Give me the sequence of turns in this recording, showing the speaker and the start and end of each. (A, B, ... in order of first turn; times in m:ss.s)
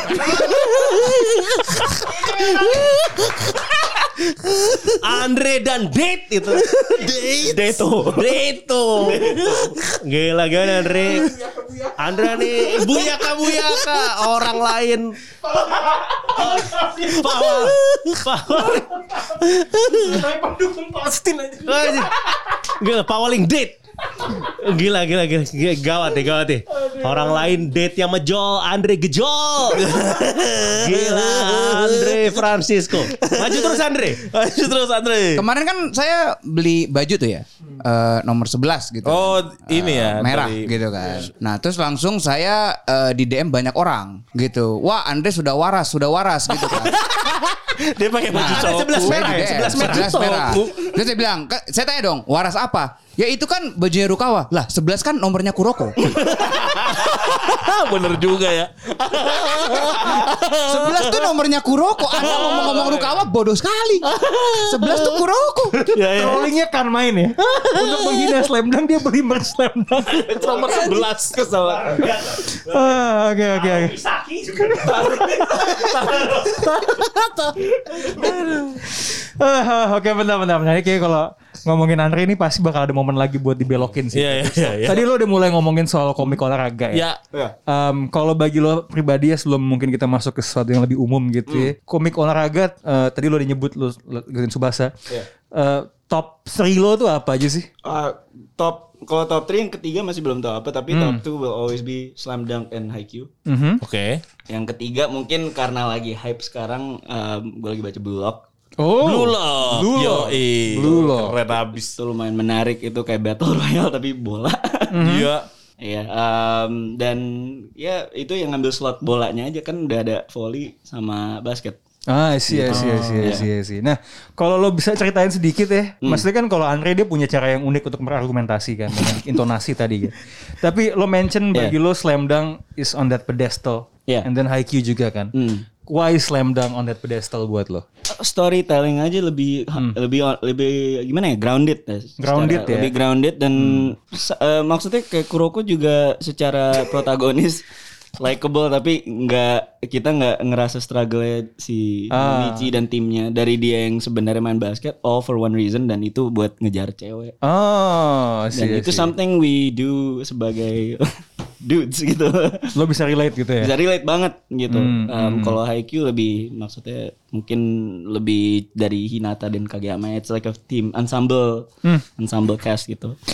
0:00.1-0:00.7 A
0:00.4-0:03.6 B
0:04.4-0:04.9 B
0:05.0-0:11.3 C
0:07.0-0:07.4 B
0:07.0-0:08.3 A
0:09.2-0:09.7 B
0:09.2-0:09.8 A
0:11.0-0:13.0 D
0:12.0-0:15.2 C
0:15.6-0:17.4 D
0:16.2-0:18.9 C
0:17.6-0:18.1 B
0:18.6-0:22.1 D
0:21.6-0:23.8 C
0:24.4-0:30.0 C
0:26.7-0:27.5 D
0:29.7-0:35.4 B
0:30.6-0:34.2 C
0:35.3-0:47.0 E
0:39.0-0:41.2 B
0:46.5-0:50.7 B
0:48.3-0:56.2 E
0:48.3-0:50.6 C
0:56.2-1:01.3 B
1:00.6-1:04.1 E
1:02.1-1:03.2 B
1:02.4-1:02.7 D
1:04.0-1:05.2 B
1:04.6-1:05.8 E
1:05.8-1:06.4 B
1:06.1-1:10.2 D
1:07.5-1:08.4 B
1:10.1-1:12.0 A
1:10.2-1:13.0 C
1:10.4-1:11.3 B
1:12.6-1:14.0 D
1:13.5-1:16.6 C
1:14.9-1:17.0 D
1:15.9-1:18.8 B
1:18.8-1:27.0 D
1:24.1-1:25.1 B
1:26.9-1:27.2 B
1:27.7-1:34.9 D
1:35.5-1:37.7 D
1:37.8-1:43.3 A
1:40.9-1:41.2 D
1:43.4-1:43.8 D
1:43.8-1:44.2 B
1:44.5-1:48.4 A
1:48.8-1:51.4 D
1:49.0-1:52.0 B
1:50.8-1:51.1 A
1:51.9-1:55.0 A
1:54.9-1:55.3 D
1:55.0-1:55.5 B
1:55.8-2:01.8 A
2:02.1-2:15.3 D
2:02.5-2:03.5 A
2:02.7-2:03.4 B
2:15.3-2:15.6 A
2:15.8-2:17.8 D
2:18.1-2:27.6 A
2:22.2-2:22.9 D
2:23.6-2:23.8 D
2:28.2-2:37.3 A
2:32.1-2:32.7 D
2:37.4-2:39.1 D
2:38.5-2:41.1 A
2:41.6-2:42.7 A
2:42.7-2:43.7 D
2:43.6-2:53.2 A
2:44.7-2:45.6 D